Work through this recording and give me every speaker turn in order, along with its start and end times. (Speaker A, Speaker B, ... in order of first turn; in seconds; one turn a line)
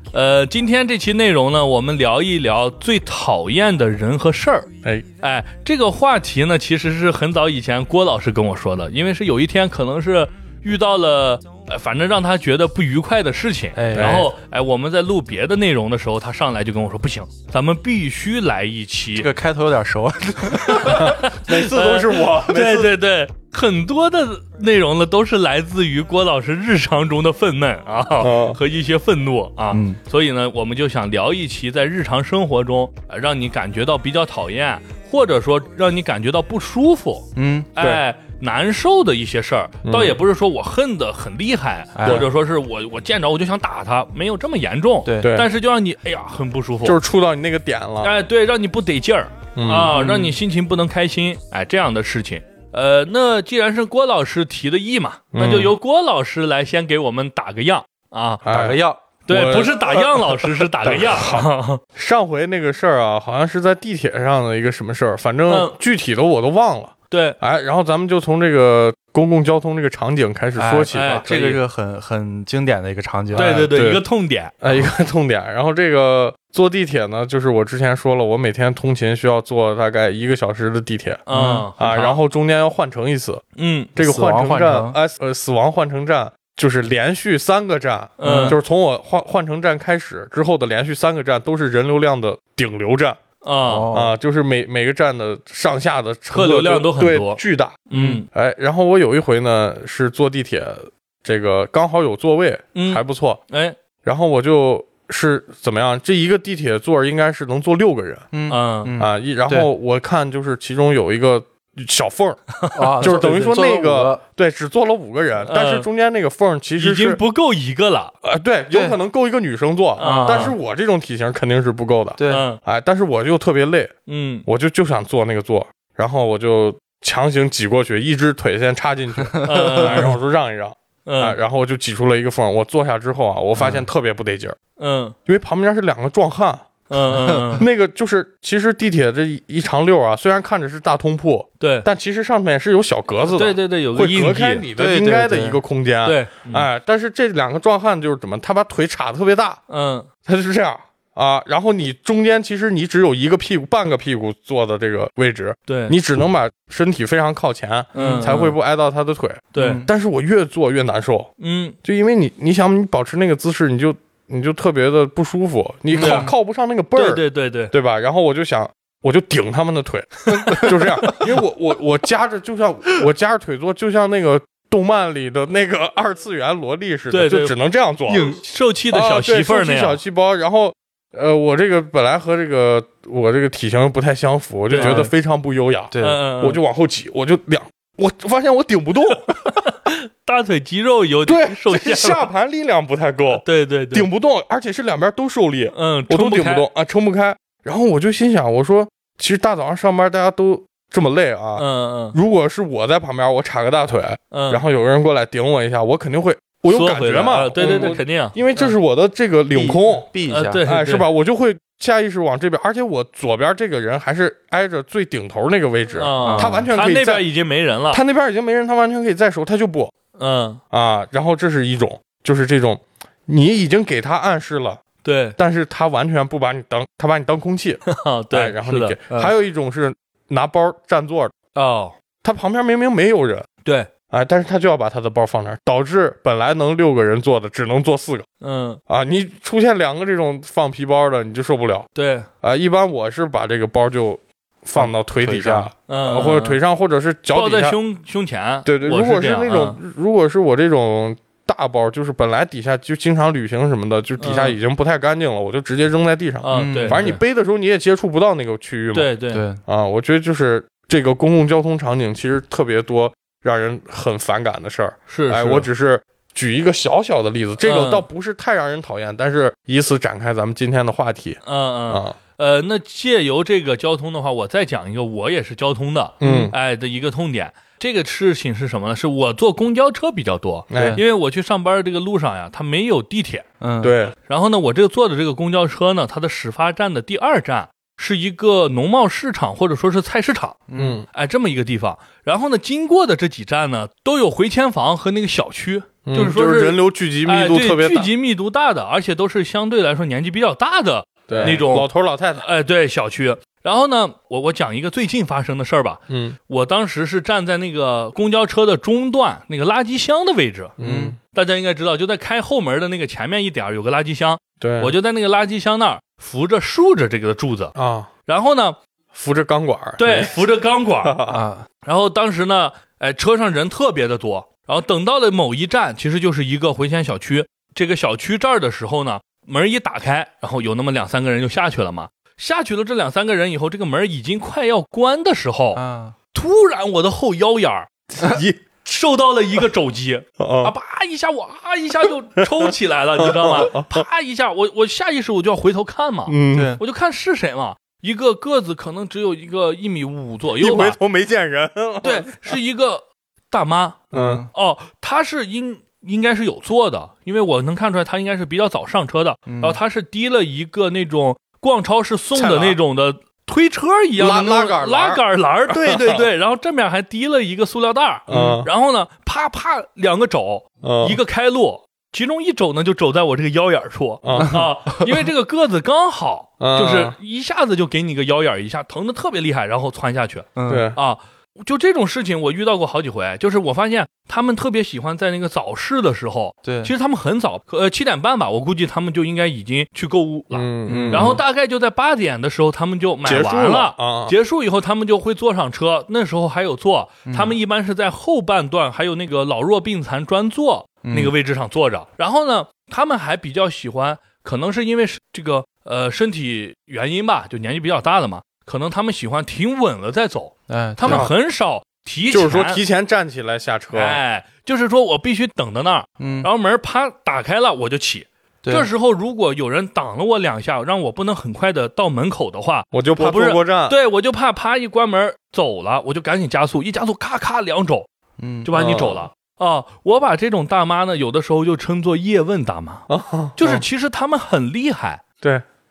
Speaker A: 0.1-19.3
Speaker B: 13.8-14.3
Speaker C: 13.9-14.3
Speaker B: 19.1-21.2
Speaker A: 20.7-47.0
Speaker C: 20.9-22.9
Speaker C: 28.2-28.6
Speaker B: 29.7-30.0
Speaker B: 37.4-37.7
Speaker C: 39.8-40.2
Speaker B: 41.9-42.3
Speaker B: 45.0-45.4
Speaker C: 45.2-45.5
Speaker C: 46.8-48.2
Speaker A: 48.0-58.4
Speaker C: 49.5-50.0
Speaker B: 49.9-50.4
Speaker C: 55.3-55.7
Speaker C: 58.4-71.3
Speaker B: 58.5-59.0
Speaker A: 59.3-61.8
Speaker A: 65.5-65.8
Speaker A: 67.1-67.4
Speaker B: 70.6-73.7
Speaker A: 70.9-71.6
Speaker C: 73.3-74.0
Speaker A: 73.4-74.5
Speaker C: 74.6-81.2
Speaker A: 81.3-82.2
Speaker B: 81.3-81.7
Speaker C: 81.8-83.4
Speaker A: 83.6-83.9
Speaker C: 84.0-93.2
Speaker B: 84.0-85.0
Speaker A: 88.2-88.6
Speaker B: 88.2-88.6
Speaker A: 93.4-93.9
Speaker B: 93.6-94.1
Speaker C: 93.9-103.4
Speaker A: 96.3-98.3
Speaker B: 97.9-98.2
Speaker A: 102.8-103.8
Speaker C: 104.0-108.3
Speaker B: 108.3-109.7
Speaker A: 108.5-109.0
Speaker C: 109.0-112.4
Speaker A: 112.6-113.2
Speaker B: 112.8-114.2
Speaker C: 113.0-117.2
Speaker A: 115.5-115.9
Speaker A: 116.8-118.1
Speaker C: 118.2-123.9
Speaker A: 120.0-120.5
Speaker B: 120.0-120.5
Speaker B: 122.2-122.5
Speaker A: 122.3-122.6
Speaker A: 124.1-124.5
Speaker C: 124.5-134.6
Speaker B: 129.2-130.1
Speaker A: 129.4-130.1
Speaker A: 131.1-131.4
Speaker B: 133.6-133.9
Speaker A: 134.8-135.2
Speaker C: 135.3-136.8
Speaker A: 136.9-137.7
Speaker B: 137.2-137.5
Speaker C: 137.6-149.6
Speaker A: 141.6-141.9
Speaker A: 143.3-144.7
Speaker B: 144.8-145.6
Speaker A: 146.1-146.7
Speaker A: 149.7-150.1
Speaker C: 150.3-161.3
Speaker A: 155.7-156.0
Speaker A: 157.9-158.5
Speaker B: 158.0-158.3
Speaker A: 159.6-159.8
Speaker B: 159.6-159.9
Speaker A: 161.4-161.8
Speaker C: 161.8-178.3
Speaker B: 165.9-166.3
Speaker A: 166.0-166.3
Speaker A: 166.9-167.7
Speaker A: 170.4-170.7
Speaker B: 170.5-171.3
Speaker A: 177.1-177.5
Speaker A: 178.1-180.0
Speaker C: 178.9-189.3
Speaker A: 184.7-185.1
Speaker B: 184.8-185.1
Speaker B: 185.9-186.2
Speaker A: 186.0-186.6
Speaker A: 189.4-192.2
Speaker C: 191.3-210.1
Speaker A: 193.4-194.1
Speaker A: 195.7-196.7
Speaker A: 201.6-202.2
Speaker A: 204.3-204.6
Speaker A: 206.7-208.4
Speaker B: 207.6-208.0
Speaker B: 209.5-210.6
Speaker A: 210.3-211.1
Speaker C: 210.7-217.2
Speaker A: 216.0-218.0
Speaker B: 216.2-216.7
Speaker C: 217.9-219.9
Speaker A: 220.2-220.6
Speaker C: 220.7-224.8
Speaker A: 225.0-225.4
Speaker C: 225.4-231.3
Speaker A: 227.9-229.3
Speaker A: 231.6-231.9
Speaker C: 232.2-233.5
Speaker C: 234.1-238.3
Speaker A: 238.4-238.8
Speaker C: 238.9-241.9
Speaker A: 242.0-242.3
Speaker C: 242.4-247.8
Speaker B: 244.8-245.7
Speaker A: 245.9-246.6
Speaker A: 247.3-249.8
Speaker C: 248.7-259.1
Speaker A: 254.2-254.6
Speaker A: 256.4-257.1
Speaker B: 256.5-257.2
Speaker A: 258.9-259.4
Speaker B: 259.3-259.6
Speaker C: 259.6-272.2
Speaker A: 265.1-265.7
Speaker A: 267.6-268.1
Speaker A: 271.4-283.5
Speaker C: 276.2-276.5
Speaker B: 276.2-276.5
Speaker C: 280.7-281.0
Speaker B: 280.7-281.0
Speaker B: 283.6-283.9
Speaker C: 283.8-284.1
Speaker A: 284.3-290.6
Speaker B: 290.7-291.0
Speaker C: 290.8-291.1
Speaker A: 291.1-310.7
Speaker C: 296.1-298.1
Speaker C: 301.3-302.4
Speaker C: 306.1-306.4
Speaker C: 310.8-311.2
Speaker B: 310.8-311.2
Speaker A: 311.3-317.7
Speaker C: 314.6-314.9
Speaker C: 317.8-318.1
Speaker A: 318.3-318.8
Speaker C: 319.1-320.3
Speaker A: 320.0-321.2
Speaker C: 321.0-321.4
Speaker B: 321.3-321.7
Speaker A: 321.8-335.8
Speaker B: 335.7-336.2
Speaker A: 336.3-337.9
Speaker C: 338.2-338.6
Speaker A: 338.8-351.0
Speaker C: 340.4-340.8
Speaker C: 342.4-344.1
Speaker C: 346.3-346.8
Speaker B: 346.5-346.8
Speaker C: 350.6-352.6
Speaker A: 352.0-412.8
Speaker C: 354.1-354.4
Speaker B: 354.1-354.5
Speaker B: 359.5-359.8
Speaker C: 362.4-362.8
Speaker C: 364.2-366.3
Speaker C: 368.3-368.7
Speaker C: 370.8-371.2
Speaker C: 374.2-374.7
Speaker C: 376.6-377.1
Speaker B: 380.6-380.9
Speaker C: 380.7-381.0
Speaker B: 386.6-386.9
Speaker C: 390.5-391.4
Speaker B: 390.9-391.4
Speaker C: 393.2-394.3
Speaker B: 397.3-397.6
Speaker B: 401.0-401.3
Speaker B: 410.7-411.3
Speaker C: 411.1-411.3
Speaker C: 412.3-414.2
Speaker A: 413.9-428.1
Speaker B: 416.2-416.5
Speaker B: 418.6-418.9
Speaker C: 422.9-424.0
Speaker B: 428.4-428.7
Speaker A: 428.6-435.2
Speaker C: 428.7-429.3
Speaker C: 433.1-433.9